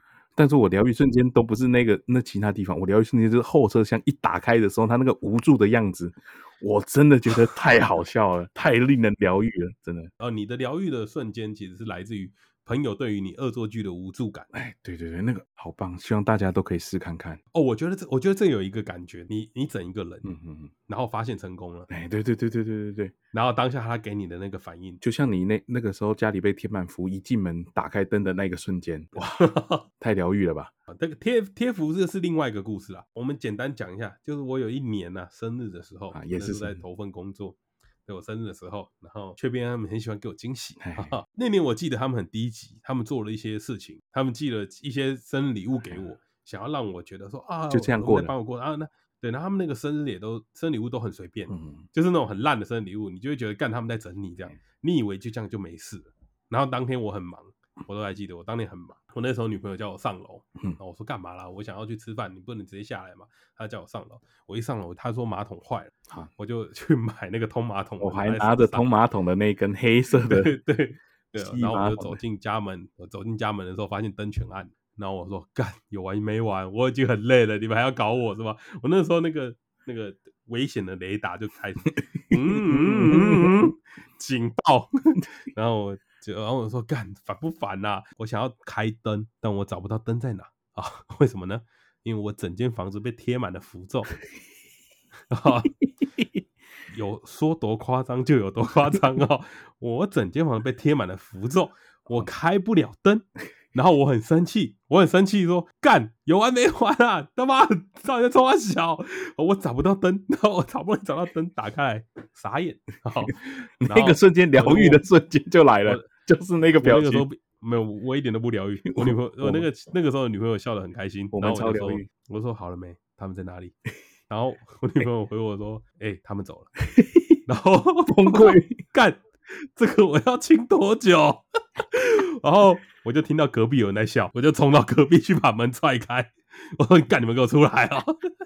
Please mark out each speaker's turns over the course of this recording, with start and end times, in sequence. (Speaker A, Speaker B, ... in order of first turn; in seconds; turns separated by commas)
Speaker A: 0.3-10.1, Speaker B: 10.2-14.5, Speaker A: 14.5-17.4, Speaker B: 17.5-20.3, Speaker A: 20.2-20.7, Speaker B: 20.9-21.9, Speaker A: 21.9-23.1, Speaker B: 23.3-25.0, Speaker A: 25.0-29.4, Speaker B: 29.2-29.9, Speaker A: 30.0-30.7, Speaker B: 30.9-68.8, Speaker A: 36.1-36.8, Speaker A: 40.8-41.2, Speaker A: 47.7-48.3, Speaker A: 51.5-51.9, Speaker A: 68.0-70.5, Speaker B: 70.2-94.2, Speaker A: 71.4-72.2, Speaker A: 82.3-83.7, Speaker B: 95.3-95.7, Speaker B: 96.9-115.0, Speaker A: 113.8-117.2, Speaker B: 116.8-123.7, Speaker A: 118.8-119.7, Speaker A: 121.3-122.1, Speaker B: 124.3-126.8, Speaker A: 126.9-127.4, Speaker B: 127.5-138.3, Speaker A: 128.1-128.8